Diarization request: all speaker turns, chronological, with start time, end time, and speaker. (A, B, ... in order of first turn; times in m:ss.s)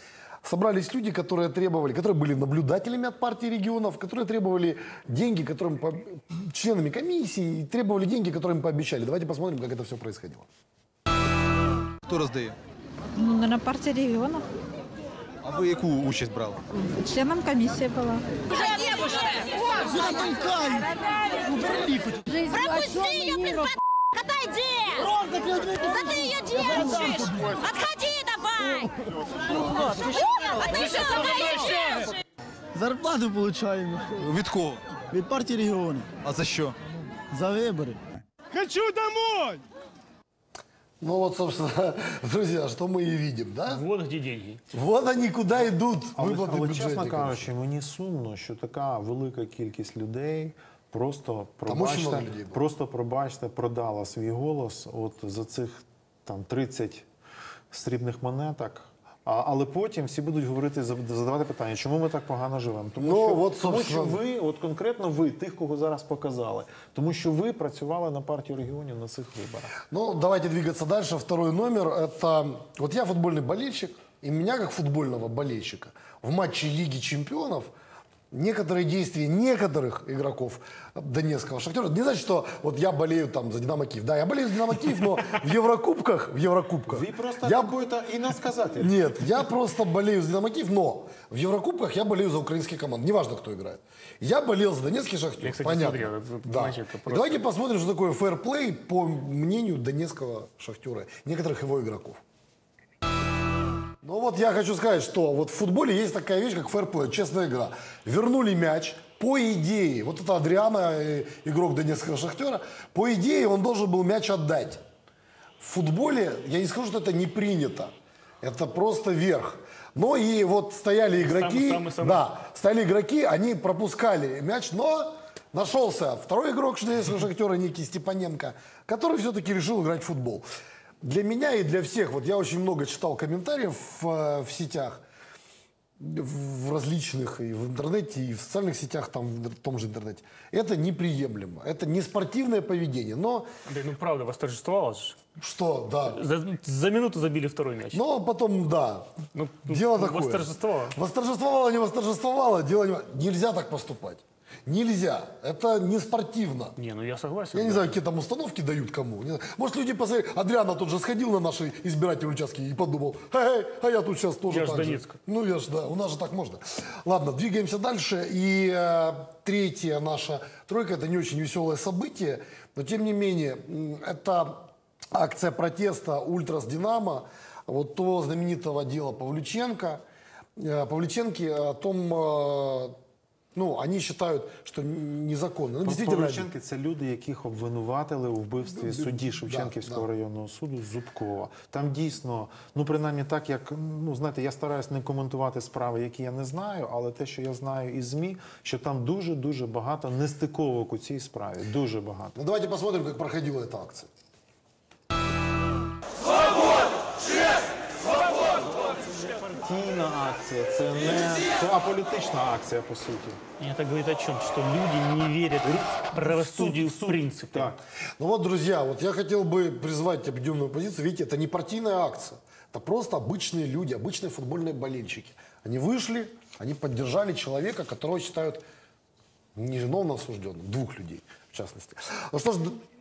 0:00.4-0:10.5 A
0:12.0-0:12.6 B
0:13.1-0:14.4 C
0:15.4-0:16.6 B
0:16.9-0:18.2 C
0:18.5-0:19.6 D
0:19.8-0:22.4 E
0:22.4-0:25.1 D
0:25.0-0:27.6 E
0:25.8-0:28.9 D
0:29.5-0:30.7 E
0:29.8-0:32.1 D
0:32.7-0:34.2 E
0:34.1-0:34.8 B
0:35.1-0:36.1 E
0:36.2-0:36.8 B
0:37.3-0:38.0 E
0:38.5-0:39.6 E
0:41.0-0:43.8 A
0:43.7-0:44.6 F
0:44.7-0:47.5 A
0:46.2-0:57.0 G
0:51.6-0:52.6 A
0:57.7-1:09.7 G
1:03.0-1:04.2 A
1:09.9-1:17.7 A
1:18.3-1:27.7 A
1:26.9-1:28.9 G
1:28.8-1:42.2 A
1:35.4-1:37.4 F
1:44.0-1:54.8 A
1:55.6-1:57.9 A
1:58.4-2:10.4 A
2:01.2-2:02.2 F
2:11.0-2:15.0 A
2:16.0-2:23.4 A
2:23.6-2:25.2 F
2:25.4-2:26.2 A
2:26.1-2:28.0 F
2:27.9-2:29.1 A
2:29.3-2:31.0 F
2:29.6-2:36.8 A
2:36.8-2:38.0 F
2:37.5-2:54.6 A
2:44.5-2:45.1 F
2:55.1-3:00.0 A
3:00.6-3:02.9 A
3:03.5-3:06.5 A
3:05.8-3:22.4 G
3:08.7-3:10.0 A
3:22.4-3:24.1 A
3:29.4-3:33.4 G
3:33.6-3:37.7 F
3:35.6-3:37.8 G
3:38.2-3:48.6 A
3:49.6-3:52.8 A